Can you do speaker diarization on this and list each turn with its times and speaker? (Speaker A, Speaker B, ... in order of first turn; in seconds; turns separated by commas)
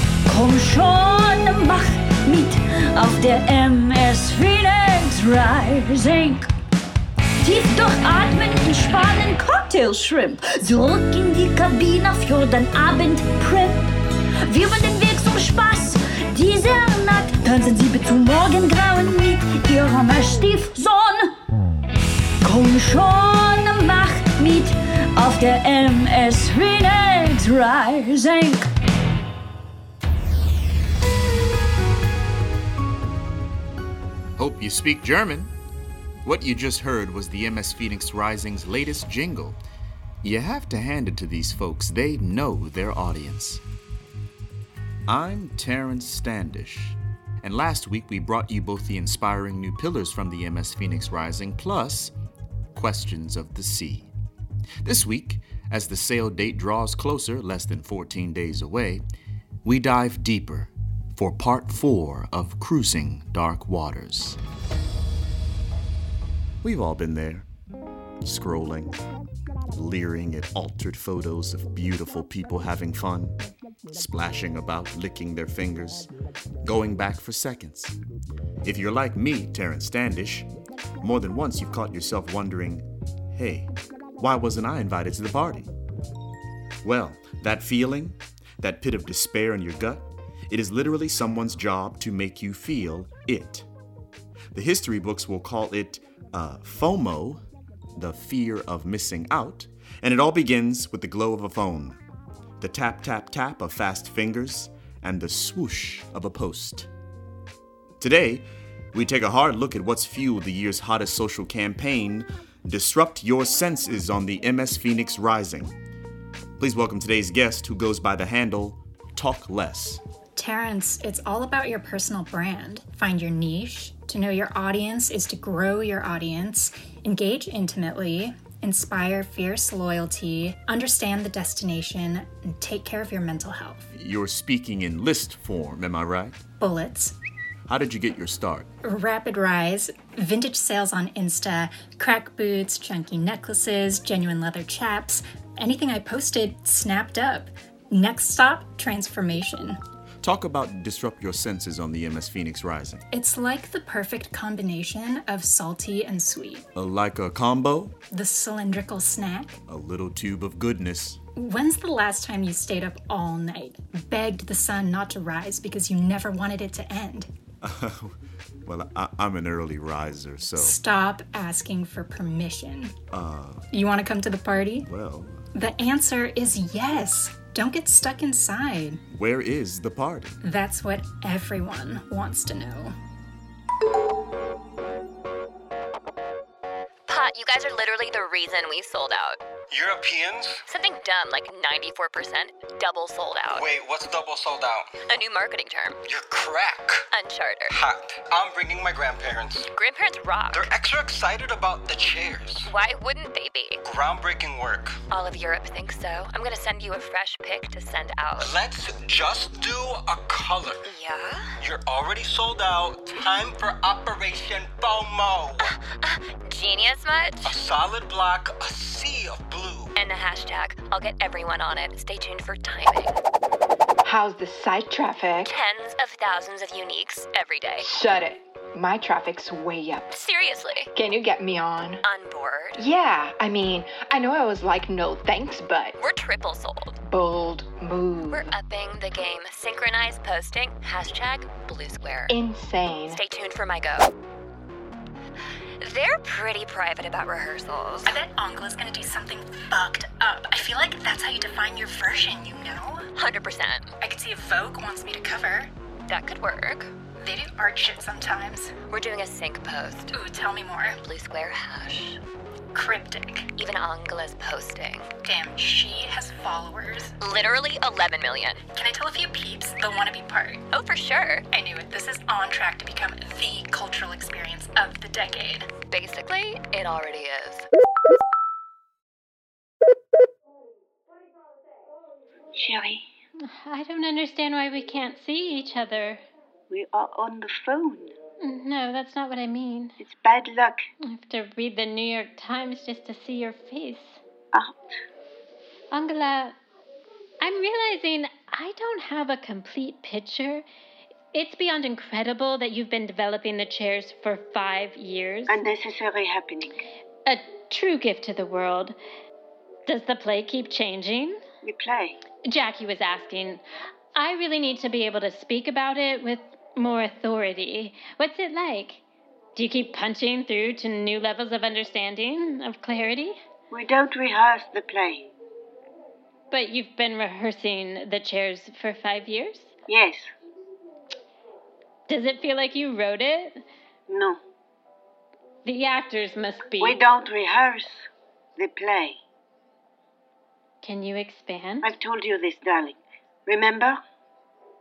Speaker A: 0.3-6.5, Speaker A: 7.4-21.3, Speaker A: 22.4-28.6, Speaker B: 34.4-35.5, Speaker B: 36.2-39.6, Speaker B: 40.2-43.6, Speaker B: 45.1-52.1, Speaker B: 52.7-54.1, Speaker B: 54.8-59.0, Speaker B: 59.6-64.4, Speaker B: 66.6-67.5, Speaker B: 68.2-69.0, Speaker B: 69.7-73.4, Speaker B: 73.9-76.1, Speaker B: 76.6-78.0, Speaker B: 78.6-80.5, Speaker B: 81.0-85.7, Speaker B: 86.8-93.7, Speaker B: 94.5-97.4, Speaker B: 98.0-102.0, Speaker B: 102.6-106.9, Speaker B: 108.0-115.8, Speaker B: 116.6-120.0, Speaker C: 120.4-133.9, Speaker B: 133.9-136.4, Speaker C: 136.6-137.2, Speaker B: 137.7-138.7, Speaker C: 138.8-149.8, Speaker B: 150.2-153.0, Speaker C: 153.1-156.7, Speaker B: 156.8-158.0, Speaker C: 158.1-159.6, Speaker B: 159.7-161.2, Speaker C: 161.4-167.3, Speaker B: 167.6-170.8, Speaker C: 170.6-173.0, Speaker B: 173.1-173.7, Speaker C: 173.7-174.9, Speaker B: 174.8-175.5, Speaker C: 175.5-179.0, Speaker B: 179.1-180.4, Speaker C: 180.4-182.9, Speaker D: 187.1-189.4, Speaker E: 189.7-190.6, Speaker D: 190.7-193.7, Speaker E: 193.5-195.0, Speaker D: 195.1-196.0, Speaker E: 196.1-197.1, Speaker D: 197.1-197.8, Speaker E: 197.7-199.7, Speaker D: 199.7-200.7, Speaker E: 200.5-202.7, Speaker D: 202.7-203.8, Speaker E: 203.8-205.0, Speaker D: 205.1-208.5, Speaker E: 208.4-210.9, Speaker D: 210.8-211.6, Speaker E: 211.6-215.7, Speaker D: 215.6-217.6, Speaker E: 217.4-219.9, Speaker D: 220.0-223.2, Speaker F: 224.0-225.5, Speaker D: 225.4-227.9, Speaker F: 227.8-230.1, Speaker D: 230.1-230.9, Speaker F: 230.9-232.0, Speaker D: 232.0-232.8, Speaker F: 232.8-236.0, Speaker D: 236.0-237.0, Speaker F: 237.1-238.5, Speaker D: 238.3-242.4, Speaker F: 242.3-243.2, Speaker D: 243.1-244.1, Speaker D: 245.8-248.2, Speaker C: 248.1-253.1, Speaker D: 253.2-253.9, Speaker C: 254.0-255.7, Speaker D: 256.1-256.9, Speaker C: 257.2-258.8, Speaker D: 258.9-260.1, Speaker C: 260.1-261.0, Speaker D: 260.9-262.2, Speaker C: 262.7-263.5, Speaker D: 263.6-265.1, Speaker C: 265.2-267.1, Speaker D: 267.2-268.6, Speaker C: 268.7-270.6, Speaker D: 270.7-271.5, Speaker C: 271.5-275.7, Speaker D: 275.9-277.7, Speaker G: 282.5-283.1, Speaker H: 283.4-286.2, Speaker G: 286.7-288.1, Speaker H: 288.4-290.0, Speaker G: 290.0-290.9, Speaker H: 291.0-294.2, Speaker G: 294.5-294.9, Speaker H: 295.9-296.6, Speaker H: 297.4-300.7, Speaker H: 301.3-305.7, Speaker G: 305.5-306.9, Speaker H: 307.3-309.0, Speaker H: 309.9-311.4, Speaker G: 311.6-312.2, Speaker H: 312.5-313.6, Speaker H: 314.1-319.0, Speaker H: 319.6-323.4, Speaker G: 323.7-325.3, Speaker H: 326.5-329.7, Speaker G: 329.9-330.3, Speaker H: 332.1-333.6, Speaker G: 334.1-334.4, Speaker H: 335.6-337.0, Speaker G: 336.8-339.2, Speaker H: 340.8-341.9, Speaker G: 341.8-344.0